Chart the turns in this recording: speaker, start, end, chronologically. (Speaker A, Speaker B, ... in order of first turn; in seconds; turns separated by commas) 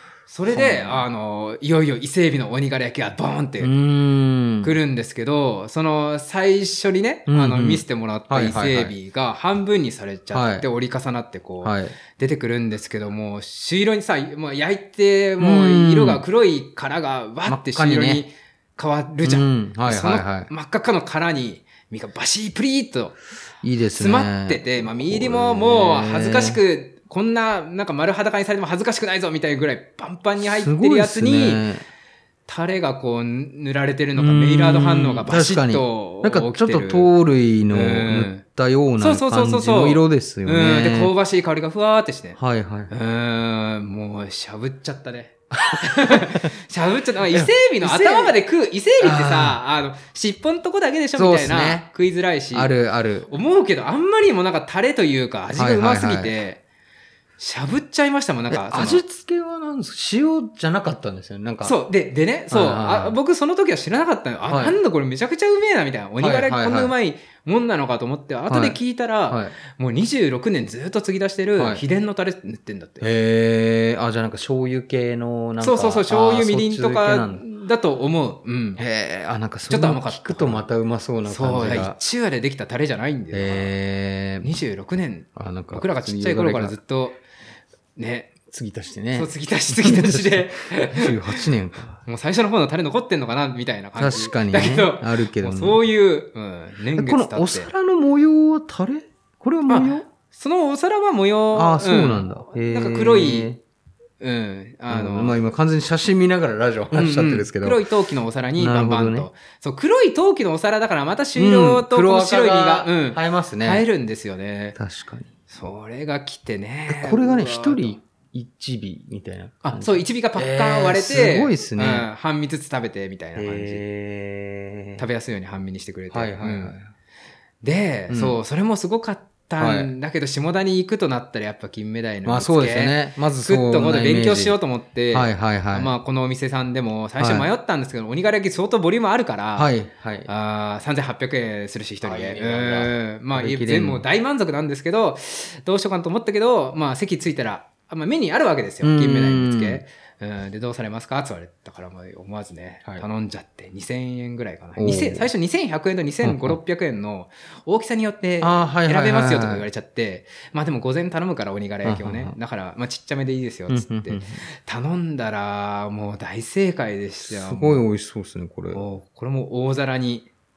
Speaker A: 0.3-3.7, Speaker B: 0.5-1.1, Speaker B: 3.6-4.8, Speaker A: 4.6-23.2, Speaker B: 7.3-8.9, Speaker B: 10.3-10.7, Speaker B: 11.6-11.9, Speaker B: 15.4-16.2, Speaker B: 17.5-18.2, Speaker B: 19.2-20.5, Speaker B: 23.6-26.6, Speaker A: 24.0-31.6, Speaker B: 30.4-31.9, Speaker A: 32.5-37.1, Speaker B: 34.2-41.1, Speaker A: 37.7-38.4, Speaker A: 39.0-52.7, Speaker B: 42.4-42.9, Speaker B: 45.6-46.5, Speaker B: 47.3-48.4, Speaker B: 49.0-49.6, Speaker B: 51.2-51.9, Speaker B: 52.5-53.3, Speaker A: 53.3-56.6, Speaker B: 55.5-56.4, Speaker A: 57.4-59.0, Speaker B: 58.5-61.8, Speaker A: 61.6-73.1, Speaker B: 62.5-63.2, Speaker B: 64.5-64.8, Speaker B: 66.2-66.9, Speaker B: 68.5-69.5, Speaker B: 71.6-71.8, Speaker B: 73.0-77.4, Speaker A: 75.6-78.8, Speaker B: 78.8-82.0, Speaker A: 79.7-80.7, Speaker A: 81.3-83.7, Speaker B: 83.3-84.5, Speaker A: 84.4-87.2, Speaker B: 85.4-86.8, Speaker A: 88.0-88.3, Speaker B: 88.5-92.0, Speaker A: 89.1-91.5, Speaker A: 92.0-97.7, Speaker B: 94.0-95.8, Speaker B: 97.0-100.1, Speaker A: 99.7-103.5, Speaker B: 101.5-103.6, Speaker A: 104.2-105.4, Speaker B: 104.9-107.8, Speaker A: 106.9-114.8, Speaker B: 108.6-109.3, Speaker B: 111.3-113.8, Speaker B: 114.8-115.3, Speaker A: 115.5-118.0, Speaker B: 116.9-122.1, Speaker A: 119.6-123.8, Speaker B: 123.4-125.0, Speaker A: 125.0-126.8, Speaker B: 126.1-126.9, Speaker A: 127.6-139.7, Speaker B: 128.1-128.4, Speaker B: 129.6-129.9, Speaker B: 132.2-134.6, Speaker B: 135.1-135.9, Speaker B: 137.2-137.5, Speaker B: 139.6-140.3, Speaker A: 140.3-167.8, Speaker B: 142.0-144.1, Speaker B: 148.8-149.8, Speaker B: 154.8-155.3, Speaker B: 156.2-156.6, Speaker B: 158.4-159.7, Speaker B: 161.8-162.3, Speaker B: 163.7-164.4, Speaker B: 167.3-168.8, Speaker A: 168.7-170.3